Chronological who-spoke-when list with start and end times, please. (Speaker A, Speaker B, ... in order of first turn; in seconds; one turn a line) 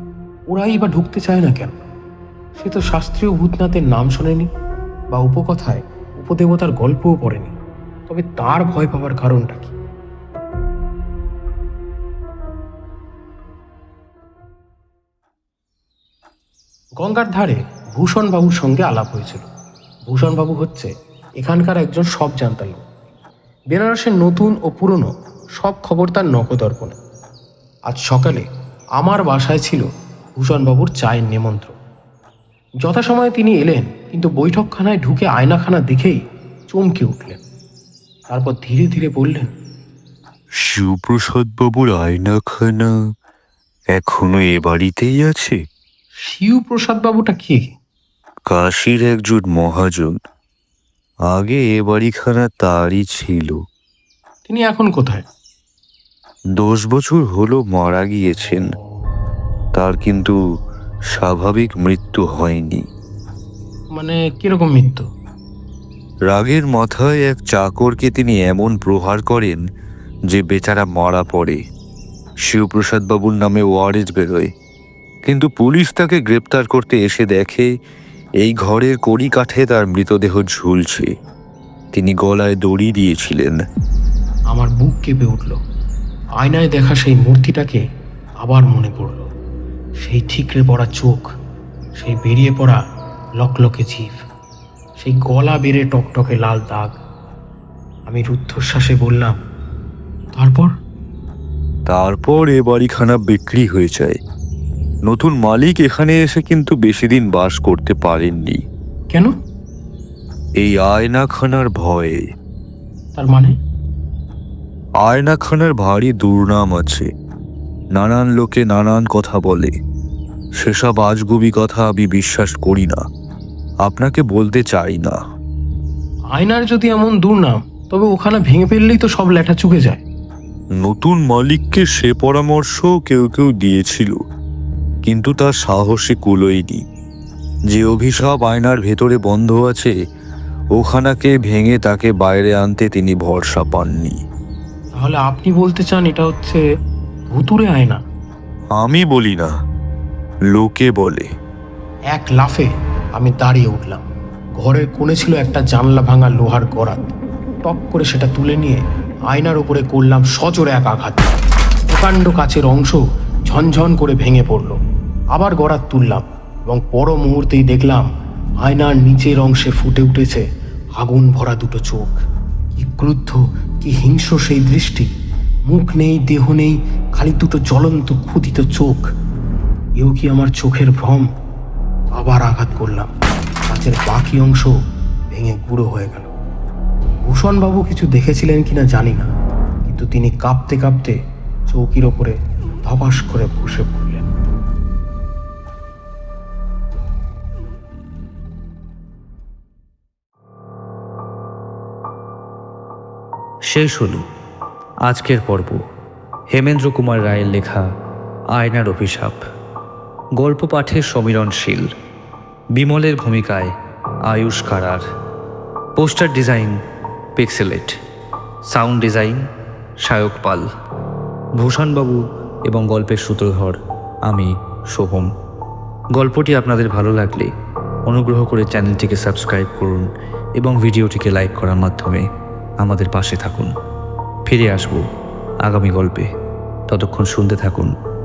Speaker A: 0.5-1.8
Speaker A: 2.5-4.5
Speaker A: 5.1-7.5
Speaker A: 8.1-9.7
Speaker A: 17.0-19.5
Speaker A: 20.1-22.8
Speaker A: 23.7-27.0
Speaker A: 27.9-28.5
Speaker A: 29.0-31.7
Speaker A: 32.8-37.4
Speaker A: 38.3-39.5
Speaker B: 40.6-42.9
Speaker B: 43.9-45.6
Speaker A: 46.2-47.7
Speaker B: 48.5-50.2
Speaker B: 51.3-53.6
Speaker A: 54.4-55.2
Speaker B: 56.5-58.6
Speaker B: 59.8-60.3
Speaker B: 61.1-62.8
Speaker A: 63.9-65.0
Speaker B: 66.3-69.6
Speaker B: 70.3-71.6
Speaker B: 72.5-74.5
Speaker B: 75.2-77.7
Speaker B: 78.4-81.1
Speaker B: 81.9-83.6
Speaker A: 84.5-85.6
Speaker A: 86.4-87.8
Speaker A: 88.4-89.3
Speaker A: 90.0-91.2
Speaker A: 92.0-92.8
Speaker A: 93.4-94.2
Speaker A: 95.0-97.0
Speaker A: 98.1-99.3
Speaker A: 100.3-100.7
Speaker B: 101.9-104.2
Speaker B: 105.1-108.6
Speaker B: 110.6-112.2
Speaker A: 113.1-113.5
Speaker B: 115.0-117.1
Speaker B: 117.9-119.7
Speaker B: 120.6-123.0
Speaker B: 123.8-125.2
Speaker A: 126.3-130.0
Speaker B: 130.8-134.2
Speaker B: 135.1-136.8
Speaker B: 137.7-139.9
Speaker B: 140.8-144.2
Speaker A: 144.9-146.6
Speaker A: 147.3-148.0
Speaker B: 148.7-149.5
Speaker B: 150.5-151.3
Speaker A: 152.1-154.0
Speaker A: 154.6-157.1
Speaker A: 157.6-161.3
Speaker A: 161.9-164.8
Speaker A: 165.3-168.1
Speaker A: 168.6-170.4
Speaker A: 170.9-172.2
Speaker A: 172.7-175.1
Speaker A: 175.7-179.1
Speaker A: 180.0-181.2
Speaker A: 182.2-183.1
Speaker A: 183.7-184.7
Speaker A: 185.3-186.3
Speaker A: 187.2-189.3
Speaker A: 189.8-191.1
Speaker A: 191.7-194.2
Speaker C: 203.7-204.2
Speaker C: 205.1-205.8
Speaker C: 206.5-207.8
Speaker C: 208.5-209.4
Speaker C: 210.4-211.9
Speaker C: 212.8-213.7
Speaker C: 214.3-215.0
Speaker C: 216.0-216.8
Speaker C: 217.3-218.0
Speaker C: 218.7-219.4
Speaker C: 220.0-220.6
Speaker C: 221.6-225.3
Speaker C: 226.2-227.5
Speaker C: 228.1-230.1
Speaker C: 230.6-232.2
Speaker C: 232.8-233.7
Speaker C: 234.4-235.0
Speaker C: 235.6-236.3
Speaker C: 236.9-237.9